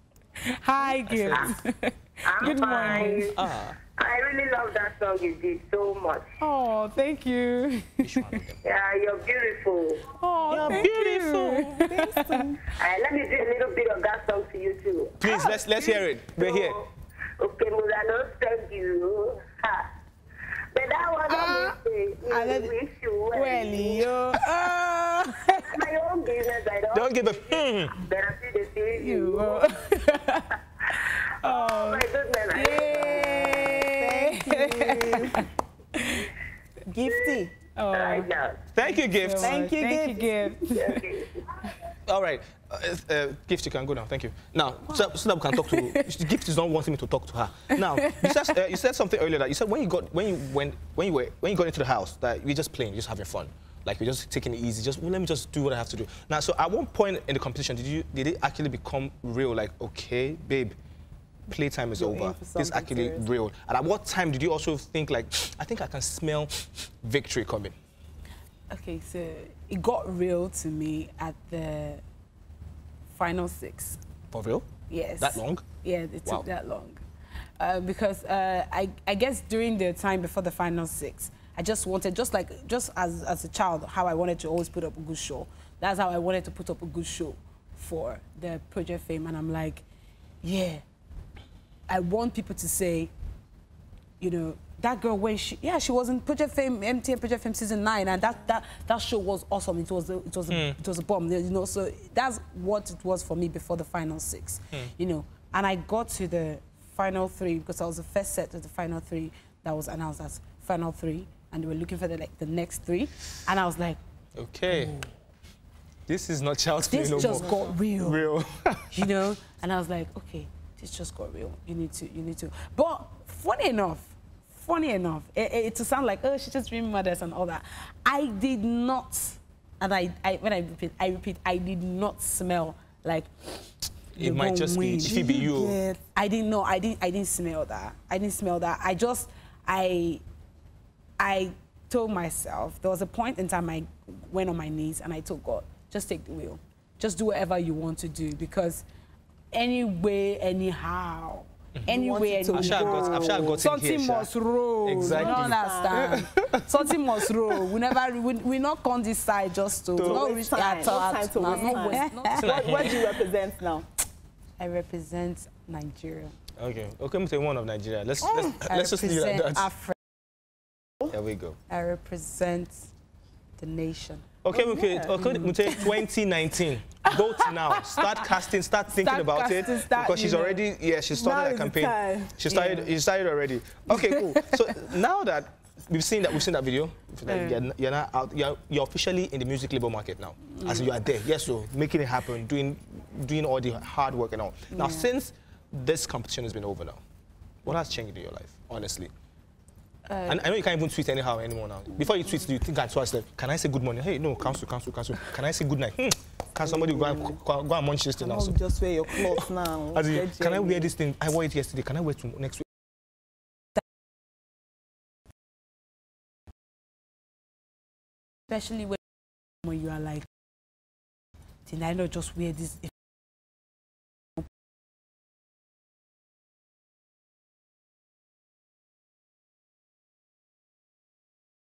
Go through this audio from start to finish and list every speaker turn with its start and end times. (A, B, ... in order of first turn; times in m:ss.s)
0:00.4-0:03.4 A
0:01.0-0:01.6 B
0:02.2-0:03.4 C
0:02.9-0:03.8 B
0:04.0-0:06.3 C
0:06.4-0:08.4 A
0:08.0-0:08.6 B
0:08.6-0:10.1 C
0:10.2-0:12.4 A
0:10.5-0:10.9 D
0:10.5-0:11.7 B
0:11.7-0:12.6 D
0:12.8-0:16.9 C
0:15.2-0:16.8 B
0:17.4-0:19.9 C
0:20.7-0:24.2 C
0:21.3-0:21.8 A
0:22.3-0:22.7 A
0:23.3-0:25.8 A
0:25.5-0:29.8 C
0:26.9-0:28.0 B
0:28.9-0:36.3 A
0:31.4-0:33.8 C
0:32.9-0:35.5 D
0:36.9-0:37.5 D
0:37.1-0:38.6 C
0:37.8-0:41.0 A
0:38.7-0:39.6 B
0:39.4-0:40.7 D
0:40.6-0:41.7 C
0:42.1-1:00.8 B
0:44.9-0:46.0 A
0:48.1-0:48.4 A
1:01.5-1:07.8 B
1:02.0-1:03.3 D
1:08.7-1:12.0 A
1:13.1-1:14.0 A
1:14.3-1:15.7 B
1:14.9-1:17.0 A
1:17.6-1:29.8 A
1:30.4-1:30.8 A
1:31.9-1:33.1 A
1:34.2-1:54.0 A
1:40.5-1:40.8 B
1:54.4-1:55.0 B
1:54.7-1:55.1 A
1:56.1-1:59.1 B
1:56.9-1:58.2 A
1:57.1-1:57.8 D
1:58.9-2:15.5 A
2:14.2-2:15.8 B
2:15.0-2:16.0 D
2:16.1-2:20.2 A
2:21.2-2:28.8 A
2:29.5-2:42.9 A
2:31.9-2:33.6 D
2:32.5-2:34.3 B
2:34.8-2:37.3 B
2:35.0-2:36.3 D
2:40.0-2:40.3 B
2:40.0-2:43.9 D
2:41.8-2:43.2 B
2:44.6-2:46.4 A
2:46.6-2:49.7 B
2:48.3-2:50.0 A
2:51.1-2:51.6 B
2:51.7-2:52.9 A
2:53.6-2:54.2 A
2:54.4-3:17.0 B
2:54.5-2:55.1 D
2:55.2-2:56.0 A
2:57.1-2:58.2 A
2:58.9-3:00.6 A
3:01.1-3:02.4 D
3:02.5-3:02.9 A
3:03.9-3:04.3 A
3:07.3-3:07.6 A
3:14.7-3:15.1 A
3:17.6-3:19.1 B
3:20.1-3:20.4 A
3:20.3-3:28.6 B
3:26.7-3:27.4 D
3:28.2-3:30.9 D
3:29.2-3:32.6 B
3:38.5-3:39.0 A
3:39.6-3:40.3 A
3:41.7-3:42.9 A